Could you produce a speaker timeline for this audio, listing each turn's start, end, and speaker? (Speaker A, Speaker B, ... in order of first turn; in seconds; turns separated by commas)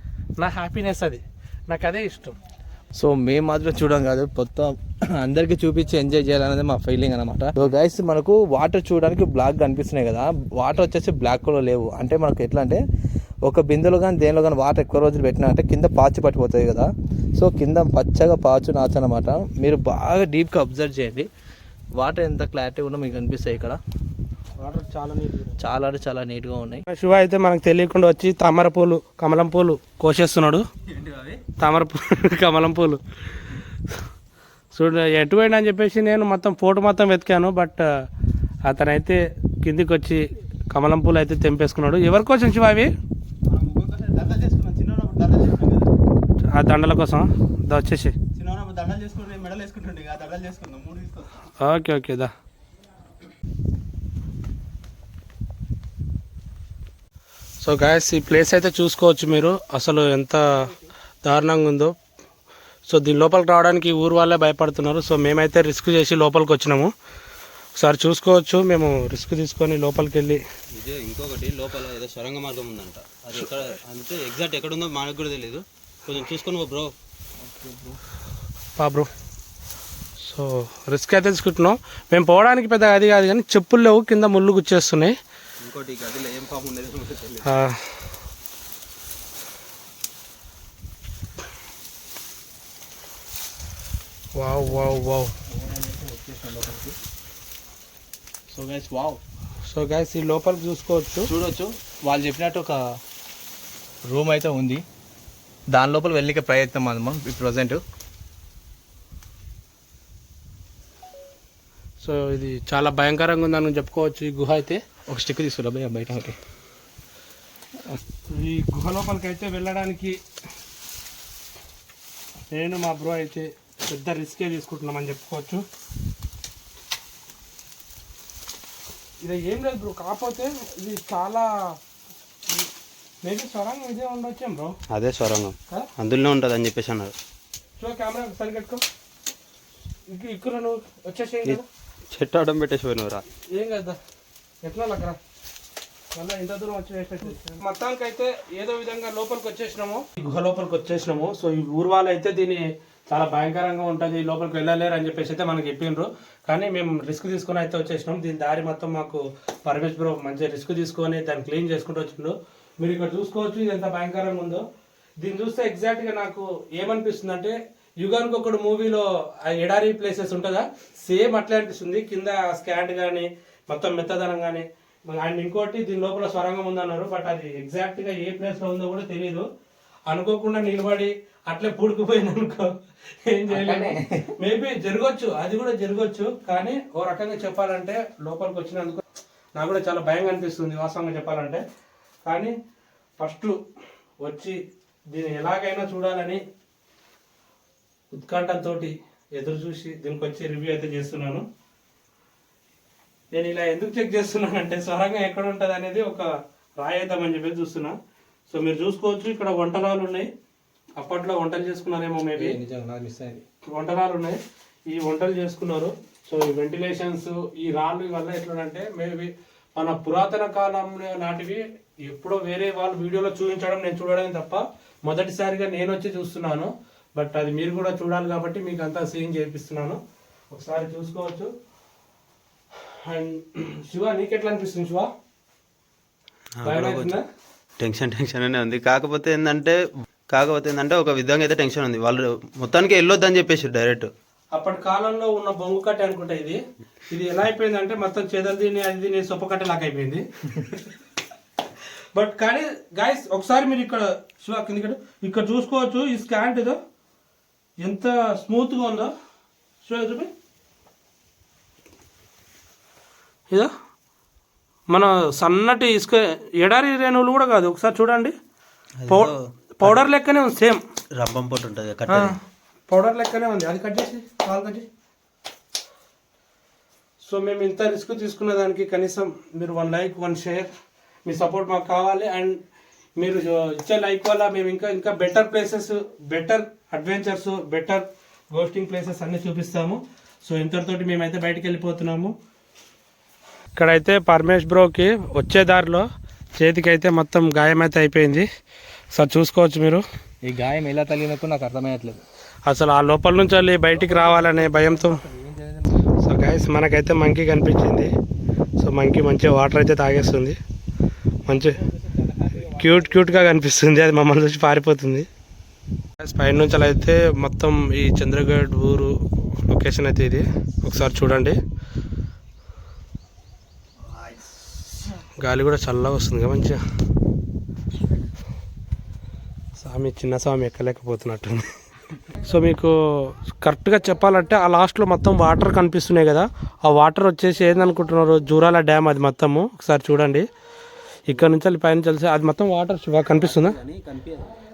Speaker A: 0.4-2.4, Speaker B: 2.9-12.8, Speaker B: 13.4-21.3, Speaker B: 21.9-23.8, Speaker A: 24.6-25.6, Speaker B: 25.6-26.8, Speaker A: 26.9-30.6, Speaker C: 30.9-31.4, Speaker A: 31.5-33.0, Speaker A: 34.7-37.8, Speaker A: 38.6-42.9, Speaker C: 43.5-43.9, Speaker B: 43.6-45.8, Speaker C: 44.7-45.6, Speaker A: 46.4-48.1, Speaker C: 48.4-48.7, Speaker B: 48.6-51.2, Speaker A: 51.6-52.3, Speaker A: 57.6-60.7, Speaker A: 61.2-61.9, Speaker A: 62.9-66.9, Speaker A: 67.8-70.4, Speaker C: 70.7-76.9, Speaker B: 77.4-78.0, Speaker A: 78.8-79.1, Speaker A: 80.2-85.2, Speaker C: 85.6-87.5, Speaker A: 87.4-87.9, Speaker A: 94.3-95.3, Speaker B: 94.6-94.9, Speaker B: 95.4-97.0, Speaker B: 98.5-99.2, Speaker A: 99.7-101.3, Speaker B: 101.2-102.8, Speaker B: 104.0-104.8, Speaker B: 105.7-107.8, Speaker A: 112.0-114.8, Speaker B: 115.1-116.4, Speaker A: 118.3-120.2, Speaker A: 122.5-125.6, Speaker A: 129.2-131.7, Speaker A: 133.2-134.7, Speaker C: 134.9-137.1, Speaker A: 137.8-138.8, Speaker A: 140.1-141.7, Speaker C: 142.1-143.2, Speaker A: 143.5-144.0, Speaker A: 144.6-145.2, Speaker A: 146.1-164.6, Speaker A: 165.2-179.5, Speaker A: 180.1-182.7, Speaker A: 183.2-189.0, Speaker B: 183.5-184.3, Speaker A: 189.5-191.6, Speaker A: 192.2-192.5, Speaker A: 193.2-193.6, Speaker A: 194.2-194.6, Speaker A: 195.1-196.4, Speaker A: 198.1-201.4, Speaker A: 203.3-207.9, Speaker A: 208.5-210.3, Speaker A: 211.0-212.6, Speaker B: 212.3-213.4, Speaker A: 213.7-214.4, Speaker A: 214.9-230.0, Speaker A: 230.5-231.5, Speaker A: 232.9-235.1, Speaker C: 236.6-237.2, Speaker A: 236.6-237.2, Speaker C: 237.8-239.8, Speaker C: 240.3-244.1, Speaker A: 244.5-250.9, Speaker A: 252.1-256.8, Speaker A: 257.8-259.1, Speaker A: 259.8-260.3, Speaker A: 264.9-268.3, Speaker C: 269.0-270.0, Speaker A: 269.1-270.8, Speaker C: 271.1-272.4, Speaker A: 272.1-274.9, Speaker A: 277.2-280.7, Speaker A: 281.2-282.6, Speaker A: 283.2-292.3, Speaker A: 293.8-296.0, Speaker A: 296.6-298.5, Speaker A: 299.1-300.0, Speaker B: 300.4-302.2, Speaker A: 302.7-305.2, Speaker B: 303.9-306.2, Speaker A: 306.2-308.1, Speaker A: 308.8-310.6, Speaker A: 311.4-311.8, Speaker B: 311.5-313.5, Speaker A: 312.8-315.3, Speaker A: 316.2-321.6, Speaker A: 325.4-326.8, Speaker A: 329.8-331.7, Speaker A: 332.4-340.5, Speaker A: 341.3-343.8, Speaker C: 341.3-341.6, Speaker C: 343.2-344.5